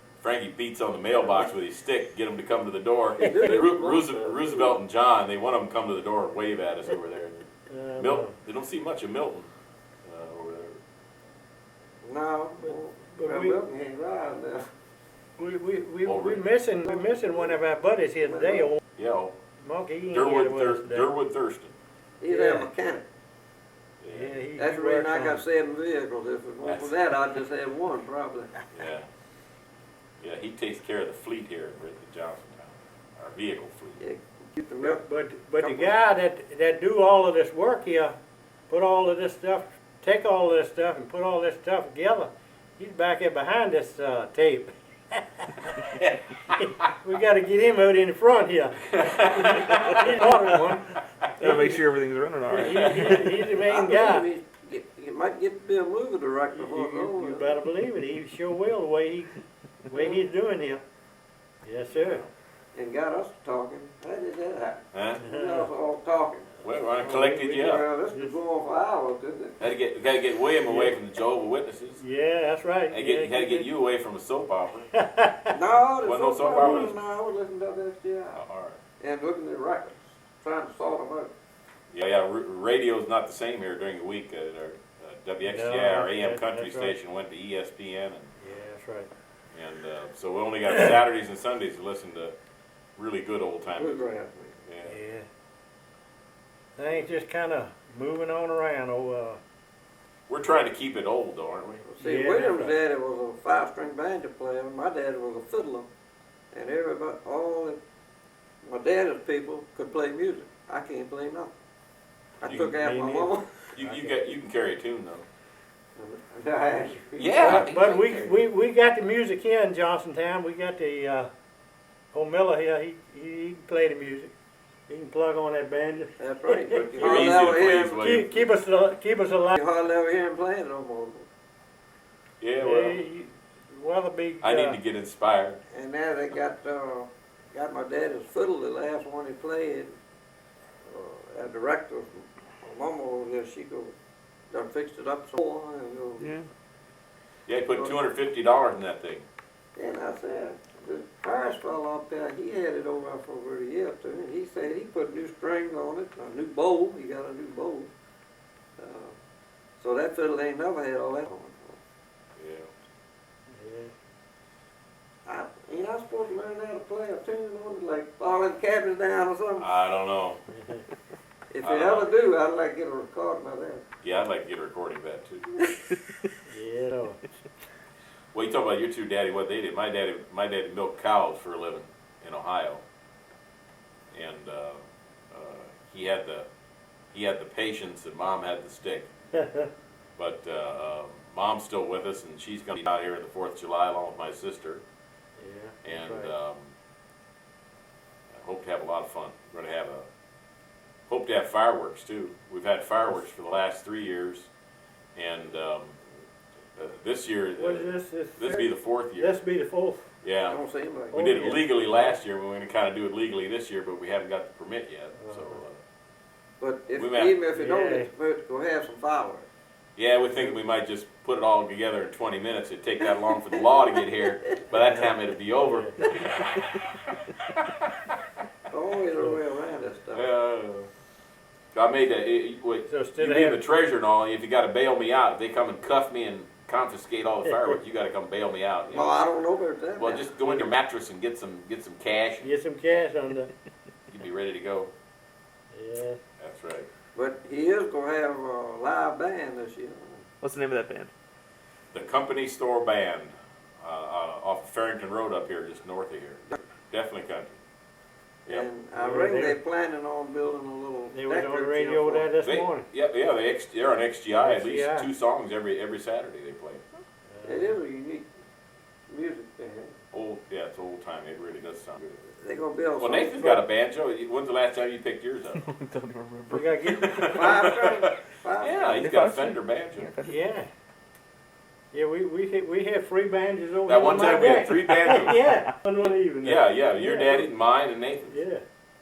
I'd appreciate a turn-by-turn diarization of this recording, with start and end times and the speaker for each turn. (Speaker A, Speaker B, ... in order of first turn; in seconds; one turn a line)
Speaker A: 0.2-7.4
Speaker B: 3.2-4.8
Speaker C: 3.2-3.5
Speaker C: 7.7-8.3
Speaker A: 8.0-9.5
Speaker A: 10.0-10.8
Speaker B: 12.0-14.6
Speaker C: 12.6-13.6
Speaker C: 15.4-18.8
Speaker A: 16.0-16.5
Speaker B: 16.8-17.6
Speaker B: 18.2-18.7
Speaker A: 18.9-19.4
Speaker C: 19.6-21.1
Speaker A: 20.1-21.7
Speaker B: 22.2-23.0
Speaker C: 22.3-22.7
Speaker A: 24.0-24.3
Speaker C: 24.1-25.4
Speaker B: 24.6-28.5
Speaker A: 26.6-27.0
Speaker A: 28.7-29.1
Speaker A: 30.2-34.0
Speaker B: 34.0-35.0
Speaker C: 34.8-38.1
Speaker B: 35.6-35.9
Speaker C: 38.7-45.8
Speaker C: 46.6-51.8
Speaker A: 49.0-50.6
Speaker D: 51.4-53.2
Speaker C: 52.5-54.3
Speaker A: 52.6-53.3
Speaker B: 53.6-57.6
Speaker C: 56.5-60.8
Speaker B: 59.9-60.2
Speaker C: 61.6-62.2
Speaker A: 61.9-62.3
Speaker B: 62.7-66.6
Speaker A: 64.9-65.2
Speaker C: 65.2-65.7
Speaker A: 66.6-67.8
Speaker C: 67.0-67.5
Speaker B: 67.3-69.6
Speaker A: 69.6-72.0
Speaker C: 70.6-70.9
Speaker C: 72.0-73.7
Speaker A: 72.9-74.9
Speaker C: 74.9-75.5
Speaker B: 75.5-78.4
Speaker A: 76.0-77.0
Speaker C: 76.5-76.9
Speaker A: 78.3-78.8
Speaker B: 79.0-81.3
Speaker A: 81.9-88.3
Speaker C: 85.4-86.9
Speaker C: 88.4-89.1
Speaker A: 89.5-92.3
Speaker A: 93.0-94.1
Speaker B: 93.8-94.5
Speaker A: 94.6-95.0
Speaker C: 94.8-95.2
Speaker C: 96.8-99.4
Speaker A: 100.3-101.8
Speaker B: 101.8-105.9
Speaker C: 102.0-102.8
Speaker B: 106.5-107.8
Speaker B: 108.6-111.5
Speaker B: 112.4-113.7
Speaker A: 112.4-112.7
Speaker C: 112.5-114.1
Speaker A: 113.7-115.2
Speaker B: 116.0-118.4
Speaker A: 117.2-117.8
Speaker C: 117.4-121.3
Speaker C: 122.1-124.3
Speaker C: 124.9-127.4
Speaker B: 126.2-128.1
Speaker A: 127.0-128.3
Speaker C: 128.0-129.6
Speaker B: 129.6-131.2
Speaker A: 132.4-133.0
Speaker C: 132.6-134.8
Speaker A: 134.4-135.6
Speaker B: 135.7-139.9
Speaker B: 140.9-143.9
Speaker B: 144.5-146.4
Speaker A: 147.5-149.2
Speaker B: 149.8-157.9
Speaker B: 158.8-159.1
Speaker B: 159.8-161.8
Speaker A: 162.4-162.7
Speaker C: 163.5-163.9
Speaker B: 165.2-169.7
Speaker A: 169.6-170.4
Speaker C: 170.5-170.8
Speaker B: 171.5-173.8
Speaker A: 171.6-172.1
Speaker A: 174.0-175.6
Speaker C: 176.4-177.2
Speaker A: 178.3-182.8
Speaker A: 184.1-186.5
Speaker A: 187.1-189.1
Speaker C: 189.3-189.7
Speaker A: 190.2-194.8
Speaker C: 195.4-196.3
Speaker A: 195.8-196.7
Speaker A: 198.3-200.1
Speaker A: 201.1-204.5
Speaker A: 205.2-206.0
Speaker A: 206.8-209.4
Speaker C: 207.6-210.1
Speaker A: 210.2-210.6
Speaker B: 210.5-211.2
Speaker C: 211.1-212.2
Speaker A: 211.1-215.8
Speaker C: 215.2-215.6
Speaker B: 216.6-219.4
Speaker A: 217.0-217.3
Speaker C: 217.5-218.1
Speaker A: 219.9-226.6
Speaker C: 224.7-226.3
Speaker B: 228.7-230.3
Speaker A: 230.1-230.9
Speaker A: 231.7-239.1
Speaker C: 232.8-233.6
Speaker C: 237.5-237.8
Speaker B: 238.9-240.3
Speaker A: 240.0-242.5
Speaker C: 242.4-243.5
Speaker A: 244.1-244.9
Speaker C: 245.7-246.2
Speaker A: 246.4-246.9
Speaker B: 247.1-250.2
Speaker D: 250.4-251.1
Speaker A: 251.9-257.6
Speaker B: 258.5-262.3
Speaker C: 258.9-259.6
Speaker C: 261.1-262.9
Speaker A: 262.4-266.8
Speaker C: 264.4-265.1
Speaker C: 267.3-267.8
Speaker B: 267.4-268.3
Speaker B: 269.1-269.9
Speaker A: 270.1-272.2
Speaker B: 272.4-273.5
Speaker A: 273.0-275.6
Speaker C: 273.4-273.6
Speaker D: 275.6-277.2
Speaker C: 276.5-277.1
Speaker A: 276.9-280.1
Speaker B: 277.2-279.1
Speaker D: 279.0-280.2
Speaker C: 280.2-280.7
Speaker C: 281.9-287.5
Speaker A: 283.9-285.5
Speaker A: 286.4-288.4
Speaker C: 288.3-288.6